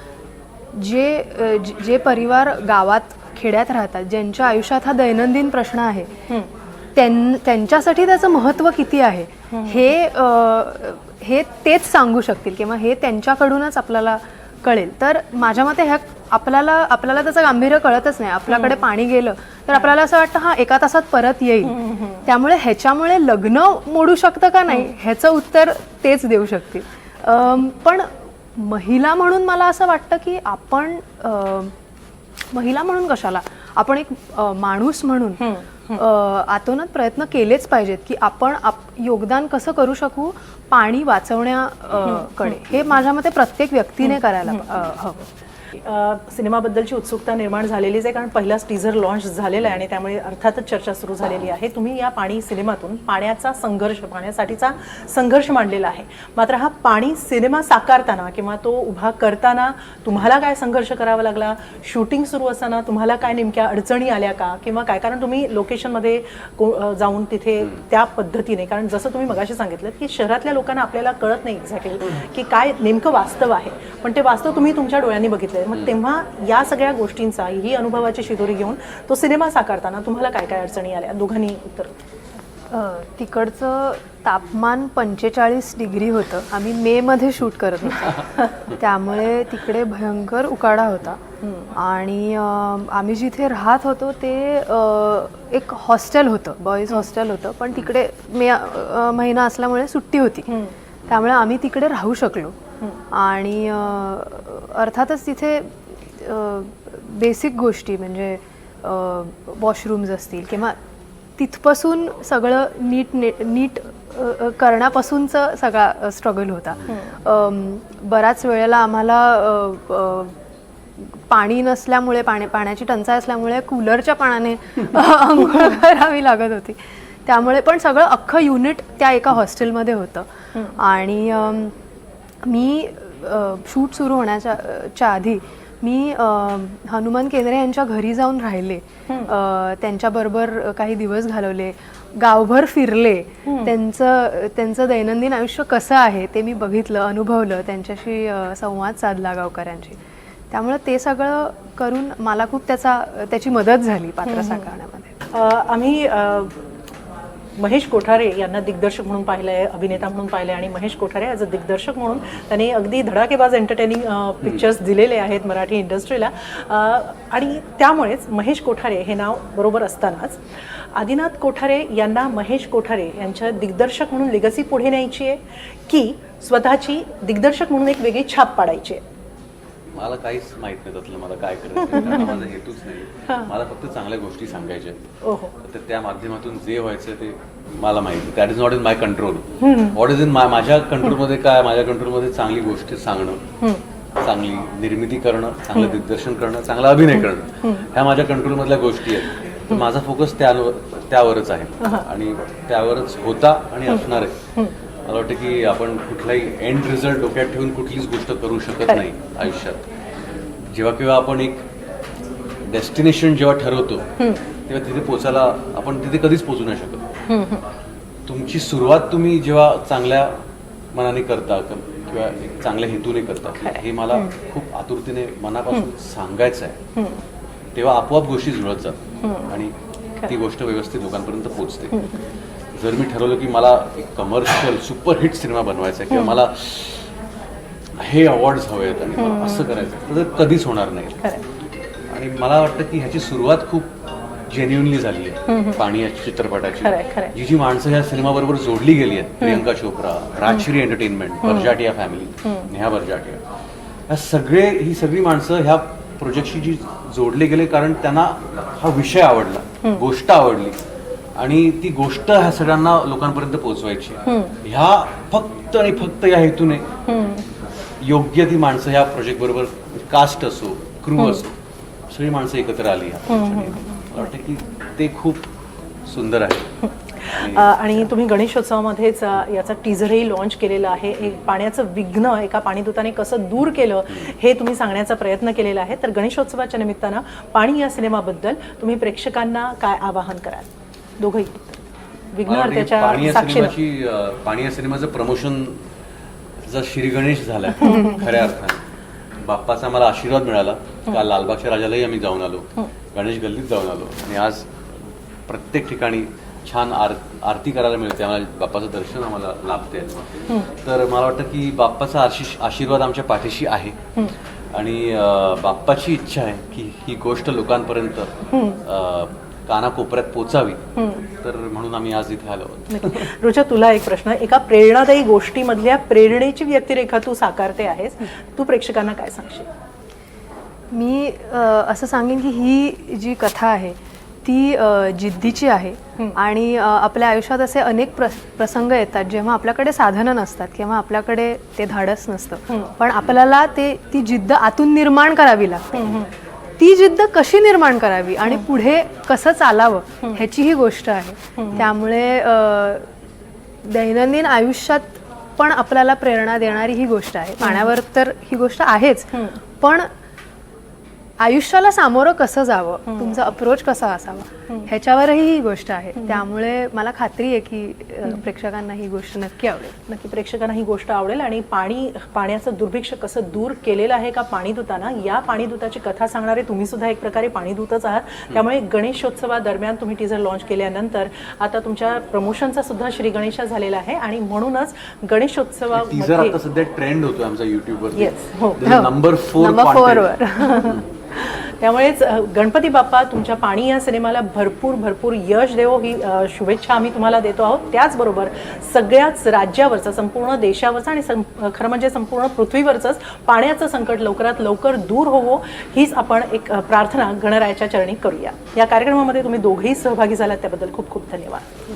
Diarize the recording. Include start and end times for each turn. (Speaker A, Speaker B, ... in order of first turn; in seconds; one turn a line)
Speaker A: 0.7-6.1
Speaker A: 7.0-31.7
Speaker B: 9.5-9.9
Speaker B: 18.5-18.8
Speaker B: 21.6-22.3
Speaker A: 32.5-45.3
Speaker B: 35.4-36.0
Speaker B: 42.0-42.5
Speaker B: 44.0-44.8
Speaker B: 45.7-81.9
Speaker A: 82.7-91.2
Speaker B: 91.4-91.8
Speaker A: 91.8-100.5
Speaker B: 100.5-100.8
Speaker A: 101.1-102.6
Speaker A: 103.1-110.8
Speaker A: 111.4-120.3
Speaker B: 116.9-117.2
Speaker A: 121.0-131.7
Speaker A: 132.4-150.0
Speaker B: 143.5-143.7
Speaker A: 150.5-155.1
Speaker B: 154.3-154.7
Speaker B: 155.3-156.6
Speaker B: 157.6-170.4
Speaker B: 170.9-179.0
Speaker C: 180.0-185.1
Speaker B: 181.9-182.4
Speaker B: 185.2-185.5
Speaker C: 185.6-193.4
Speaker B: 189.6-190.0
Speaker C: 194.2-204.4
Speaker B: 195.8-196.0
Speaker B: 197.1-197.9
Speaker C: 205.1-209.8
Speaker C: 210.7-211.7
Speaker C: 212.7-214.1
Speaker C: 214.7-217.1
Speaker B: 217.3-217.7
Speaker C: 218.3-220.4
Speaker C: 220.9-226.8
Speaker B: 223.6-224.3
Speaker B: 226.9-227.2
Speaker C: 227.8-229.0
Speaker B: 229.2-229.5
Speaker C: 229.5-229.7
Speaker C: 230.3-232.0
Speaker B: 231.9-232.2
Speaker C: 232.8-237.1
Speaker B: 236.1-236.4
Speaker C: 238.0-241.3
Speaker B: 239.2-239.7
Speaker C: 242.1-243.9
Speaker C: 244.5-253.4
Speaker B: 245.5-245.8
Speaker B: 246.8-247.3
Speaker B: 251.4-251.8
Speaker C: 254.1-260.8
Speaker C: 261.4-266.9
Speaker B: 264.3-264.6
Speaker B: 267.1-267.5
Speaker C: 268.0-271.6
Speaker C: 272.1-275.5
Speaker B: 273.3-274.0
Speaker C: 276.1-276.7
Speaker B: 276.8-293.8
Speaker C: 277.2-278.1
Speaker C: 292.4-295.8
Speaker C: 296.7-298.8
Speaker B: 297.8-298.3
Speaker C: 299.4-304.7
Speaker C: 305.5-310.2
Speaker C: 310.8-314.0
Speaker C: 314.7-320.8
Speaker B: 318.5-318.8
Speaker B: 321.0-321.3
Speaker C: 321.4-323.3
Speaker B: 322.9-329.7
Speaker A: 330.9-346.2
Speaker B: 342.7-342.9
Speaker B: 345.9-346.3
Speaker A: 346.8-353.1
Speaker B: 351.6-351.9
Speaker A: 353.8-360.1
Speaker B: 357.6-357.9
Speaker B: 359.3-359.6
Speaker A: 361.4-370.0
Speaker B: 363.1-363.4
Speaker B: 370.1-386.6
Speaker C: 385.9-390.3
Speaker B: 388.2-388.8
Speaker A: 388.8-391.0
Speaker B: 390.6-411.7